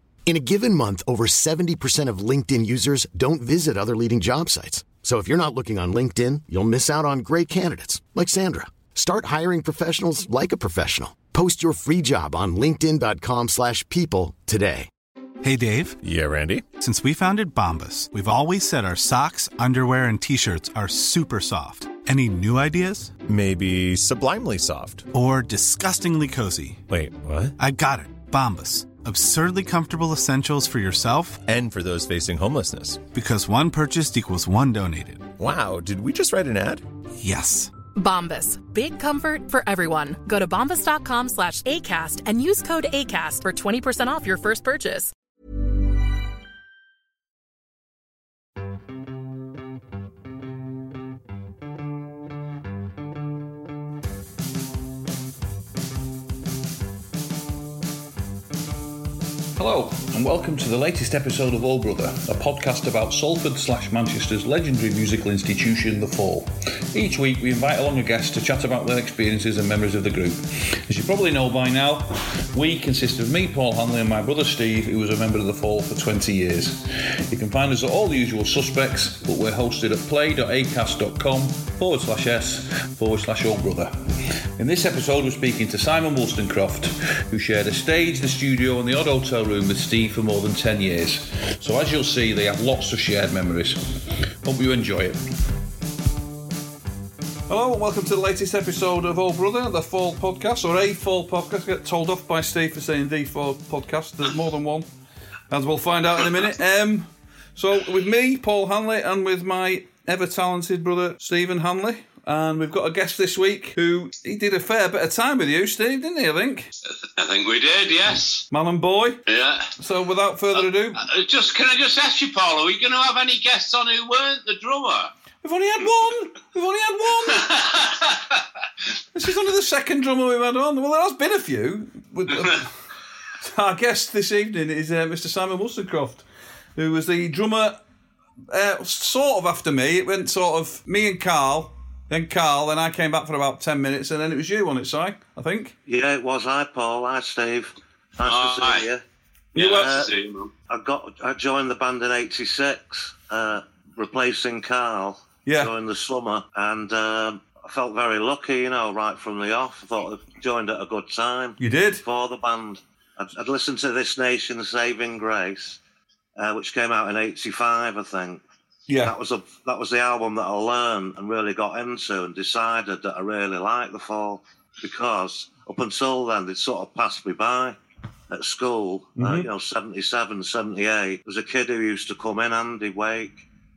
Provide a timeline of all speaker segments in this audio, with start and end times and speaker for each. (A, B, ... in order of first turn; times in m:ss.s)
0:00.2-0:14.9 A
0:15.4-0:16.0 B
0:16.0-0:16.7 C
0:16.7-0:23.2 B
0:23.2-0:25.1 C
0:25.1-0:26.8 B
0:26.9-0:27.6 C
0:27.6-0:31.4 B
0:31.5-0:33.0 C
0:33.1-0:35.3 B
0:35.4-0:36.8 C
0:37.2-0:37.7 B
0:38.0-0:45.1 D
0:59.6-1:23.9 E
1:24.6-1:33.8 E
1:34.4-1:35.2 E
1:37.5-1:44.9 E
1:45.5-1:56.7 E
1:57.0-1:58.4 F
1:58.5-1:59.2 E
1:59.3-1:59.7 F
1:59.8-2:01.0 E
2:00.5-2:05.1 F
2:05.4-2:07.5 E
2:07.3-2:08.4 F
2:09.1-2:12.7 E
2:13.4-2:16.2 E
2:16.8-2:17.8 E
2:18.5-2:25.7 E
2:25.8-2:29.0 G
2:28.2-2:28.8 F
2:29.5-2:30.5 F
2:29.5-2:30.1 G
2:30.7-2:45.8 G
2:35.4-2:35.7 E
2:41.6-2:42.0 E
2:46.4-2:48.4 G
2:48.9-2:49.1 E
2:49.0-2:57.8 G
2:58.3-3:03.4 G
2:59.2-2:59.5 E